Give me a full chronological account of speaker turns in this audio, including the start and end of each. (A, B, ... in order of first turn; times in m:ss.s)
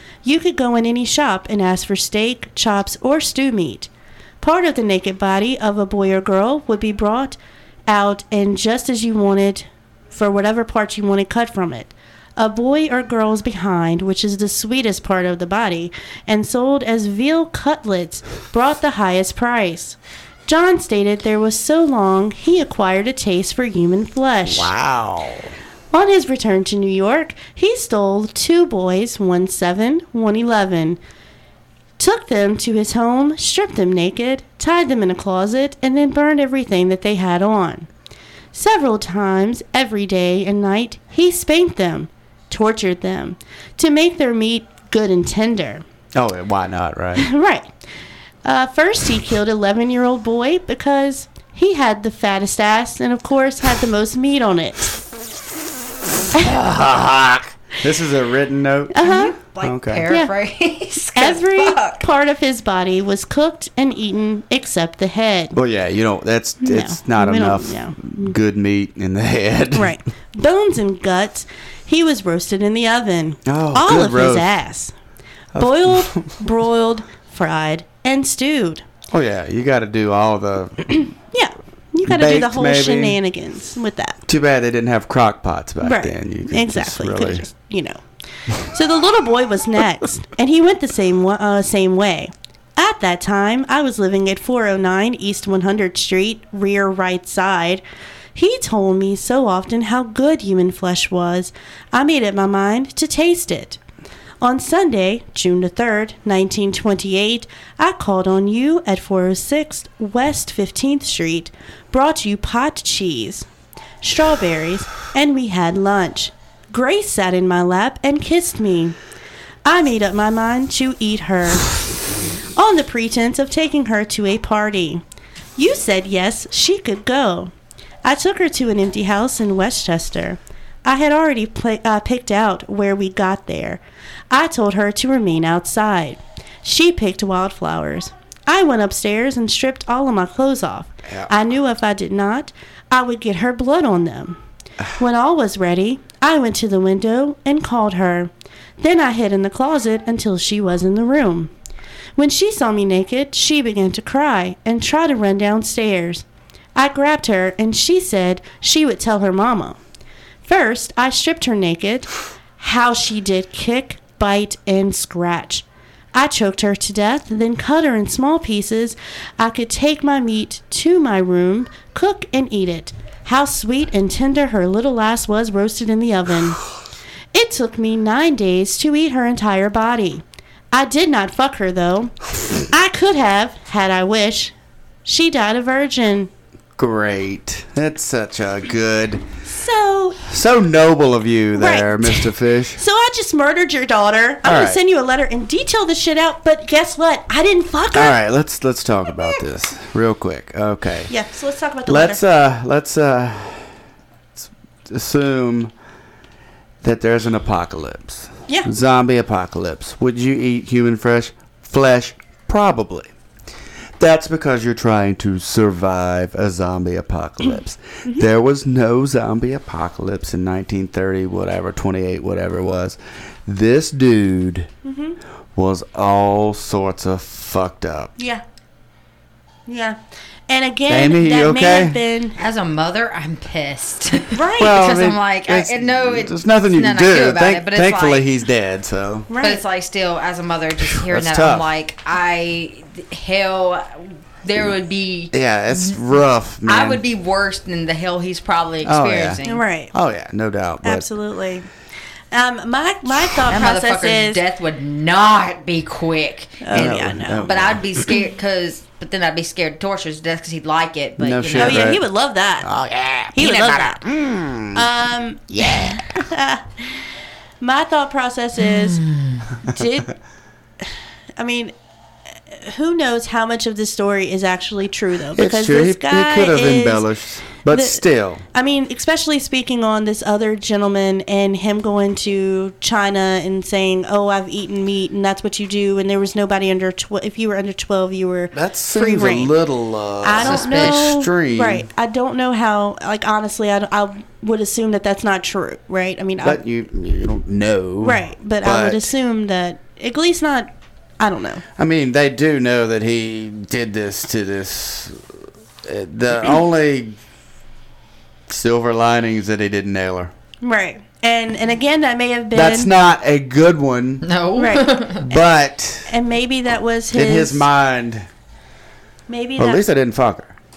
0:00.2-0:03.9 A
0:04.4-0:24.7 A
0:24.4-0:25.5 B
0:25.9-0:31.0 A
0:32.0-0:37.9 A
0:38.5-0:45.8 A
0:46.1-0:47.3 B
0:47.2-0:47.7 A
0:48.4-0:55.0 A
0:56.3-0:59.0 B
0:58.9-0:59.3 A
0:59.0-1:02.0 C
0:59.6-1:00.0 B
1:01.2-1:05.6 A
1:05.5-1:10.0 B
1:06.6-1:08.4 A
1:09.7-1:14.9 A
1:13.4-1:14.5 B
1:15.5-1:16.4 B
1:15.6-1:18.8 A
1:19.1-1:21.1 B
1:21.3-1:24.2 A
1:22.0-1:23.2 B
1:24.3-1:27.4 B
1:25.8-1:37.8 A
1:38.3-1:43.8 A
1:44.4-1:53.5 A
1:54.0-1:59.0 A
1:59.6-2:01.8 A
2:02.6-2:05.0 A
2:05.6-2:07.5 A
2:08.0-2:13.8 A
2:14.3-2:24.4 A
2:25.0-2:31.5 A
2:32.2-2:36.2 A
2:36.8-2:39.8 A
2:40.4-2:56.6 A
2:57.3-3:02.1 A
3:02.7-3:04.5 A
3:05.0-3:06.3 A
3:06.8-3:09.2 B
3:09.4-3:10.2 A
3:10.2-3:12.8 B
3:11.6-3:18.1 A
3:14.4-3:14.8 B
3:17.9-3:21.1 B
3:21.1-3:22.2 A
3:21.9-3:23.8 B
3:24.4-3:25.7 B
3:26.8-3:33.1 B
3:34.0-3:44.7 B
3:44.8-3:45.2 A
3:45.5-3:48.1 B
3:48.2-3:48.4 A
3:49.7-3:50.0 A
3:50.5-3:52.4 A
3:50.9-3:52.0 B
3:52.4-3:58.3 C
3:54.3-3:54.8 A
3:54.6-3:59.3 B
3:59.3-3:59.6 A
3:59.4-4:06.0 C
4:00.8-4:01.7 B
4:05.3-4:07.0 B
4:06.6-4:09.6 C
4:08.8-4:09.4 B
4:09.4-4:09.9 A
4:09.9-4:11.1 B
4:10.8-4:11.7 A
4:12.3-4:14.4 A
4:13.5-4:22.0 C
4:16.6-4:17.5 A
4:16.7-4:18.1 B
4:21.2-4:22.0 B
4:21.5-4:22.7 A
4:22.6-4:24.9 B
4:23.3-4:24.0 A
4:24.7-4:27.1 A
4:25.5-4:26.2 B
4:27.6-4:29.0 A
4:28.6-4:29.5 C
4:29.6-4:30.1 A
4:31.4-4:31.7 A
4:32.5-4:37.0 A
4:35.3-4:38.4 B
4:37.7-4:49.5 A
4:48.5-4:51.8 B
4:50.2-4:56.6 A
4:50.4-4:51.1 C
4:56.4-4:59.1 B
4:58.0-5:01.6 A
5:01.8-5:07.2 B
5:08.5-5:10.3 B
5:10.6-5:12.9 A
5:12.5-5:14.2 B
5:14.2-5:15.3 C
5:14.6-5:15.5 A
5:15.3-5:16.1 B
5:16.1-5:17.7 A
5:17.1-5:18.3 B
5:19.3-5:19.8 A
5:19.6-5:20.5 B